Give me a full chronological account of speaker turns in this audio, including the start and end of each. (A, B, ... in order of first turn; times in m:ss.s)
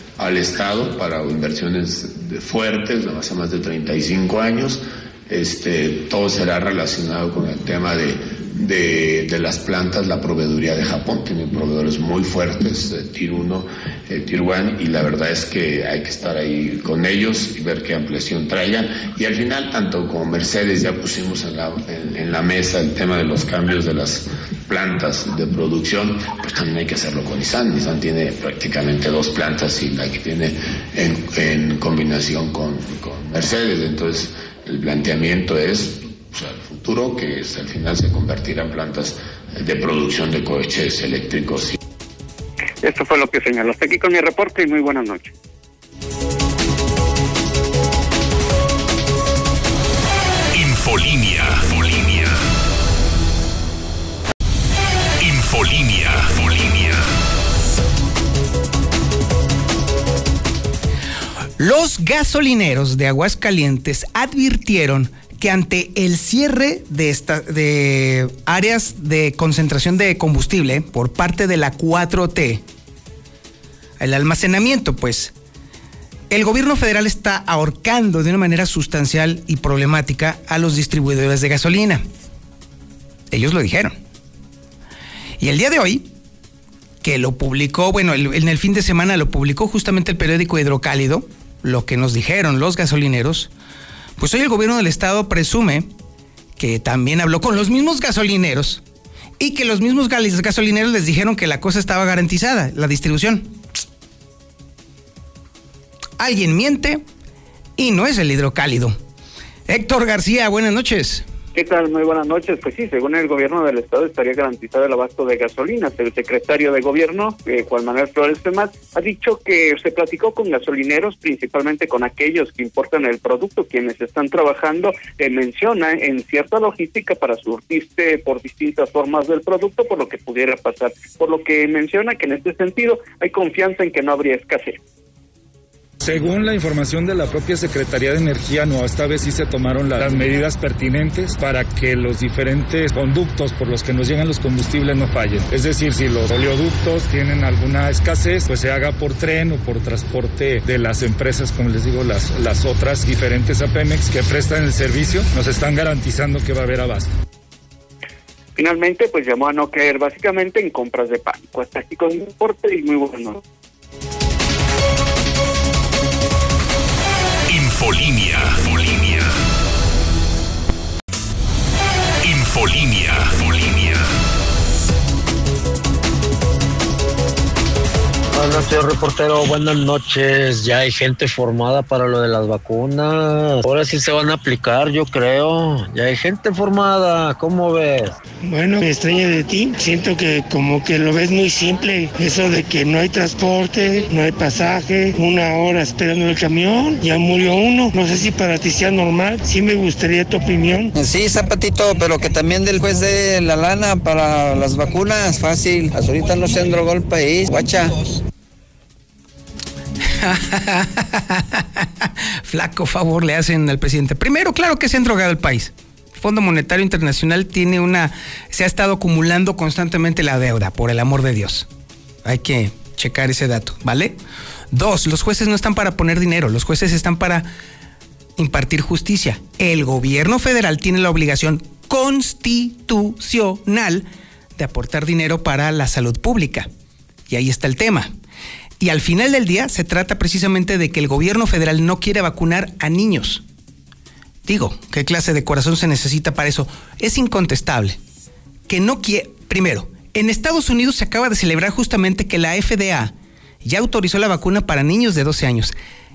0:00.2-0:41.8 A
0:42.8-0:45.3 B
0:50.5-0:52.4 C
0:55.2-0:57.1 C
1:01.6-1:12.6 D
1:14.0-1:15.3 D
1:16.3-1:22.0 D
1:23.3-1:23.9 D
1:25.4-1:26.1 D
1:27.0-1:33.5 D
1:34.2-1:35.9 D
1:36.6-1:38.8 D
1:39.4-1:43.5 D
1:46.2-1:47.0 D
1:47.8-1:49.0 D
1:49.7-1:51.2 D
1:51.6-2:14.8 B
2:16.0-2:37.1 E
2:38.6-2:43.4 B
2:47.5-2:49.4 C
2:52.2-2:54.1 C
2:58.3-3:08.2 F
3:08.4-3:20.9 G
3:21.0-3:27.9 H
3:30.1-3:41.7 D
3:42.2-3:44.2 D
3:44.7-3:47.5 D
3:48.4-3:56.7 D
3:57.3-3:58.1 D
3:58.8-4:03.4 D
4:04.5-4:08.0 D
4:08.7-4:15.7 D